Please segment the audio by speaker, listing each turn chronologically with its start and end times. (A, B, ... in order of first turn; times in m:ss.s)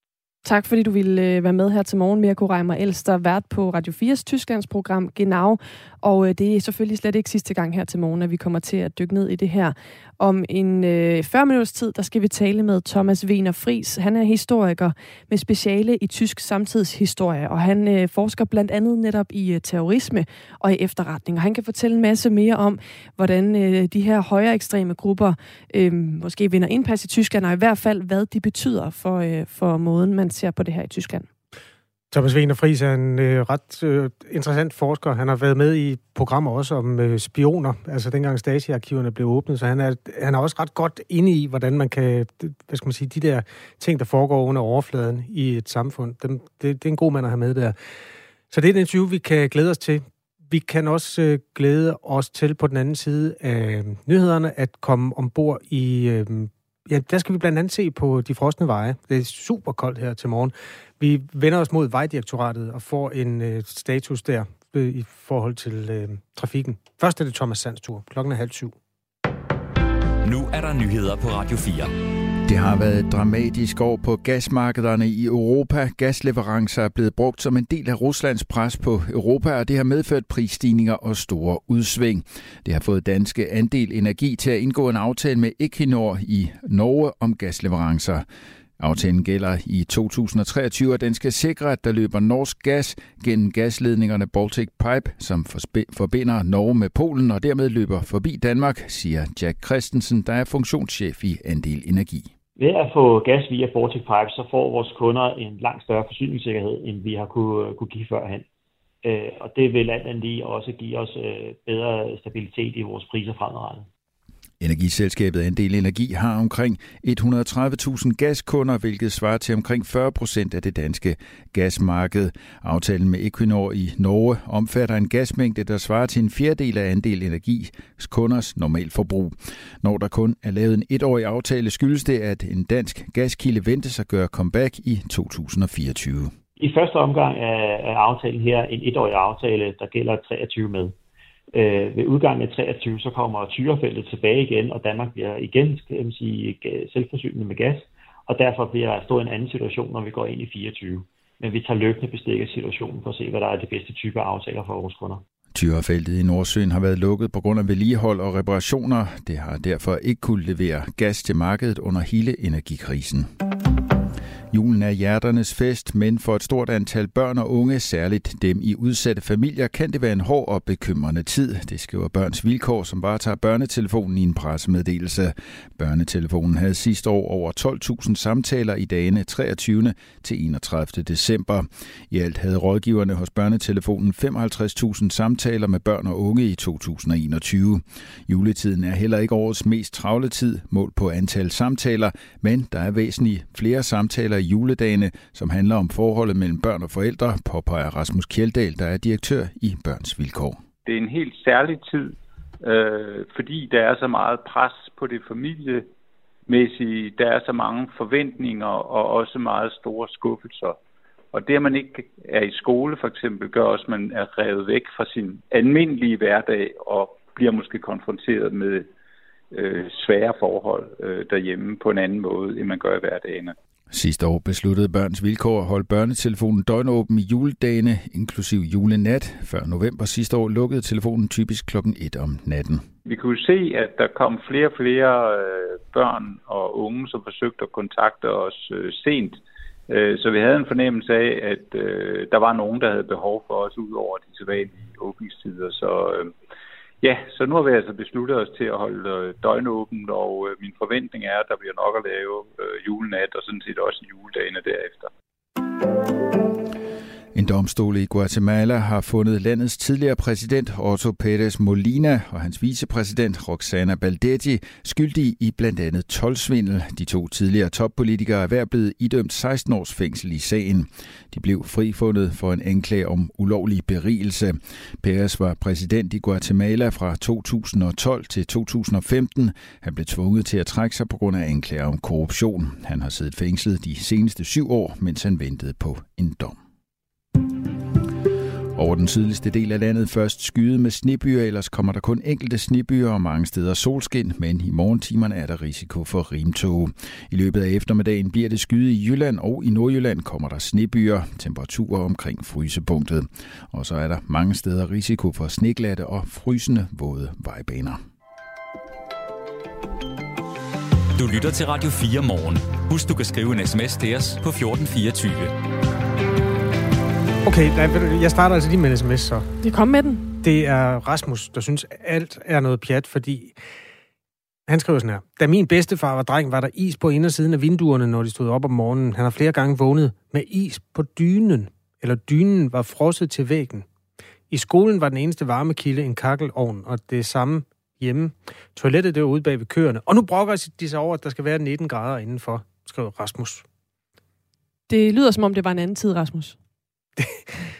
0:00.4-0:31.3 A
0:32.1-0:47.7 B
0:48.5-1:08.8 B
1:10.2-1:11.9 C
1:12.5-1:28.2 D
1:28.8-1:42.3 D
1:42.6-1:48.5 E
1:49.0-1:53.9 E
1:54.6-2:16.3 D
2:16.6-2:20.9 E
2:21.5-2:35.2 E
2:35.5-2:43.3 D
2:44.5-3:20.6 D
3:20.8-3:25.9 F
3:26.5-3:30.8 F
3:31.3-3:38.9 F
3:39.5-3:43.5 F
3:43.9-3:52.9 D
3:53.0-4:06.3 F
4:07.0-4:15.1 F
4:17.3-4:46.6 D
4:48.8-5:08.0 D
5:11.2-5:15.5 C
5:17.4-5:19.5 B
5:19.6-5:20.3 A
5:20.4-5:23.6 B
5:24.7-5:33.8 B
5:34.5-5:43.6 B
5:44.9-5:46.5 A
5:47.2-5:47.5 B